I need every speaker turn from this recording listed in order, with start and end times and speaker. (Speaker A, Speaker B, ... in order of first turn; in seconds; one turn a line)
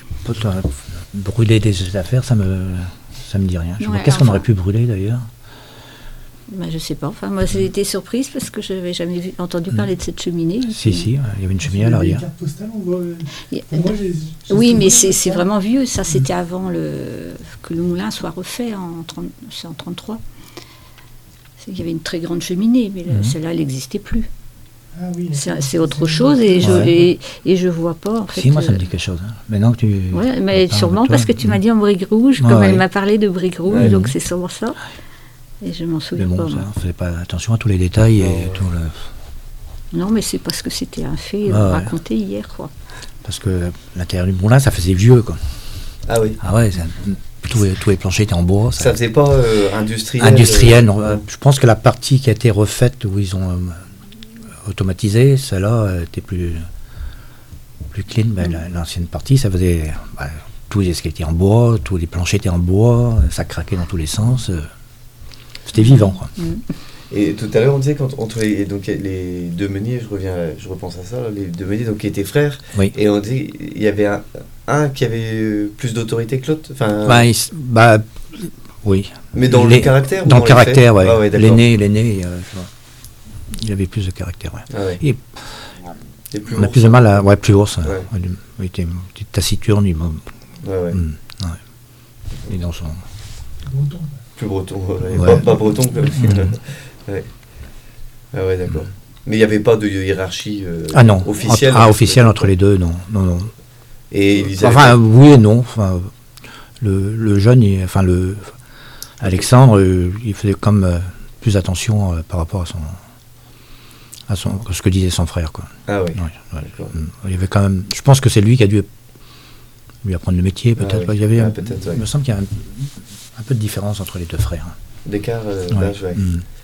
Speaker A: 0.2-5.3
Speaker B: 3.8-4.5
Speaker B: 6.5-11.1
Speaker A: 10.6-12.2
Speaker C: 11.6-15.4
Speaker B: 13.5-13.9
Speaker B: 14.5-20.2
Speaker B: 21.6-24.3
Speaker A: 23.1-23.4
Speaker C: 24.9-27.0
Speaker B: 25.3-28.8
Speaker A: 26.6-26.9
Speaker A: 28.3-31.6
Speaker B: 30.1-34.8
Speaker A: 32.4-32.8
Speaker D: 33.7-34.0
Speaker A: 33.8-34.1
Speaker B: 35.6-36.6
Speaker A: 36.1-39.1
Speaker D: 38.2-38.6
Speaker B: 39.9-42.7
Speaker A: 41.5-41.9
Speaker A: 43.2-45.4
Speaker D: 46.1-46.4
Speaker A: 46.4-49.0
Speaker D: 48.8-51.2
Speaker A: 50.2-53.9
Speaker A: 54.6-56.7
Speaker A: 57.9-64.7
Speaker A: 65.7-66.3
Speaker B: 65.7-66.6
Speaker D: 67.1-77.3
Speaker A: 77.0-82.7
Speaker D: 79.3-81.6
Speaker A: 83.5-85.6
Speaker D: 84.7-85.0
Speaker D: 86.3-87.2
Speaker A: 86.5-90.2
Speaker D: 90.6-91.0
Speaker A: 90.9-91.6
Speaker A: 92.5-93.0
Speaker C: 93.7-94.2
Speaker D: 94.4-97.3
Speaker A: 95.1-95.5
Speaker A: 96.2-96.5
Speaker D: 98.3-102.5
Speaker A: 100.9-103.5
Speaker D: 104.1-105.0
Speaker A: 104.6-106.1
Speaker A: 106.8-108.5
Speaker A: 109.2-113.0
Speaker A: 114.3-118.9
Speaker D: 115.9-116.9
Speaker A: 120.0-124.7
Speaker D: 120.8-122.0
Speaker D: 125.0-126.2
Speaker A: 125.7-126.4